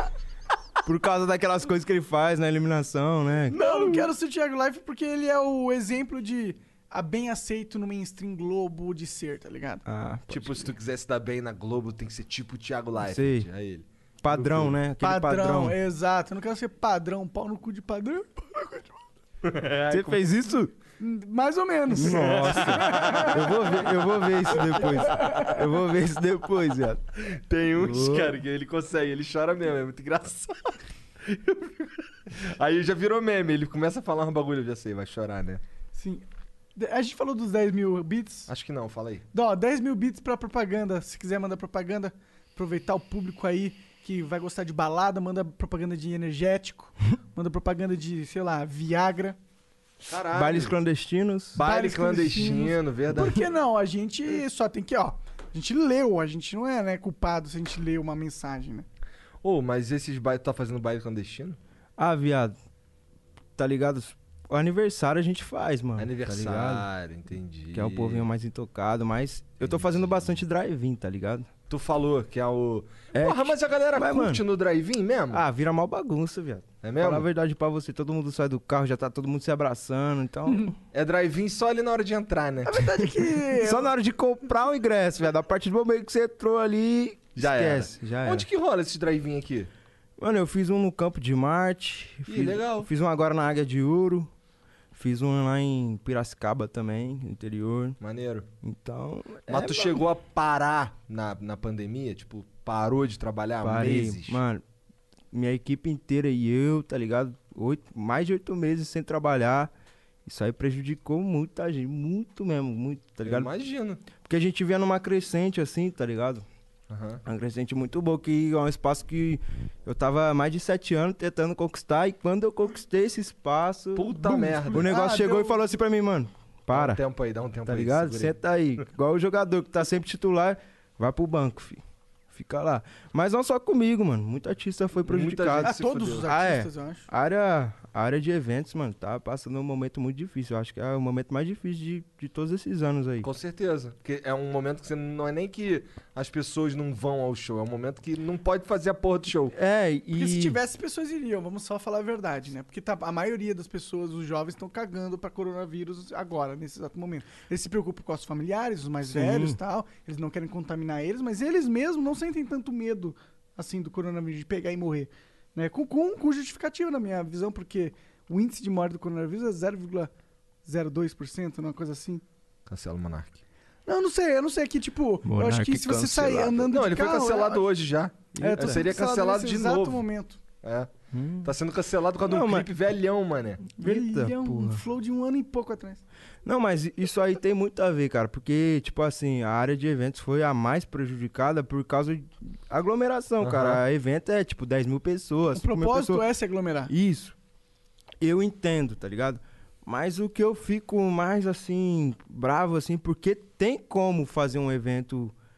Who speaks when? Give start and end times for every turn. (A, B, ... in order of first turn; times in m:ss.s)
0:00.8-0:03.6 A
0:03.5-0:04.1 B
0:03.6-0:09.8 C
0:09.9-0:10.7 A
0:10.3-0:14.8 B
0:13.0-0:13.5 A
0:14.2-0:15.8 A
0:15.0-0:19.0 C
0:19.4-0:20.2 B
0:19.9-0:20.7 A
0:21.0-0:23.4 C
0:21.9-0:27.0 A
0:22.0-0:23.8 B
0:25.1-0:25.6 C
0:27.3-0:30.7 B
0:27.8-0:28.4 A
0:31.2-0:35.6 B
0:35.9-0:36.2 C
0:36.8-0:38.5 C
0:38.5-0:39.2 B
0:39.3-0:49.4 C
0:50.0-0:50.8 B
0:50.3-0:51.6 A
0:51.6-0:53.4 B
0:51.6-0:58.9 C
0:59.4-1:01.6 B
1:02.0-1:02.6 A
1:03.6-1:06.8 A
1:06.0-1:08.3 B
1:07.7-1:11.5 A
1:09.6-1:10.4 B
1:11.7-1:15.4 B
1:13.1-1:14.4 A
1:15.3-1:20.8 A
1:16.8-1:17.2 B
1:20.9-1:22.8 B
1:22.6-1:23.9 C
1:23.5-1:28.5 A
1:27.4-1:29.7 B
1:30.2-1:34.3 A
1:32.3-1:32.9 B
1:34.9-1:38.0 A
1:38.0-1:38.5 B
1:38.6-1:40.0 A
1:39.5-1:44.4 B
1:43.6-1:44.6 A
1:45.3-1:49.7 A
1:50.2-1:53.5 A
1:53.2-1:54.0 B
1:54.2-1:56.4 A
1:56.9-1:57.2 B
1:57.2-2:04.2 A
2:04.0-2:05.0 B
2:04.2-2:05.6 C
2:04.7-2:07.0 A
2:06.7-2:08.4 B
2:07.7-2:11.8 A
2:12.3-2:15.7 A
2:15.0-2:16.3 B
2:15.6-2:17.1 C
2:16.2-2:23.3 A
2:23.2-2:29.5 B
2:29.5-2:30.6 A
2:30.1-2:50.1 C
2:39.0-2:39.6 A
2:50.6-2:52.2 C
2:52.7-2:53.4 B
2:53.9-2:57.6 C
2:55.2-2:56.8 A
2:56.7-3:00.0 B
2:58.4-2:58.9 A
2:58.4-3:00.4 C
3:00.6-3:00.9 B
3:01.1-3:01.5 A
3:01.4-3:03.7 B
3:02.2-3:02.7 A
3:03.8-3:04.8 A
3:03.8-3:06.0 C
3:06.4-3:16.2 A
3:13.4-3:13.8 B
3:15.6-3:16.9 C
3:16.9-3:17.4 A
3:18.2-3:25.3 A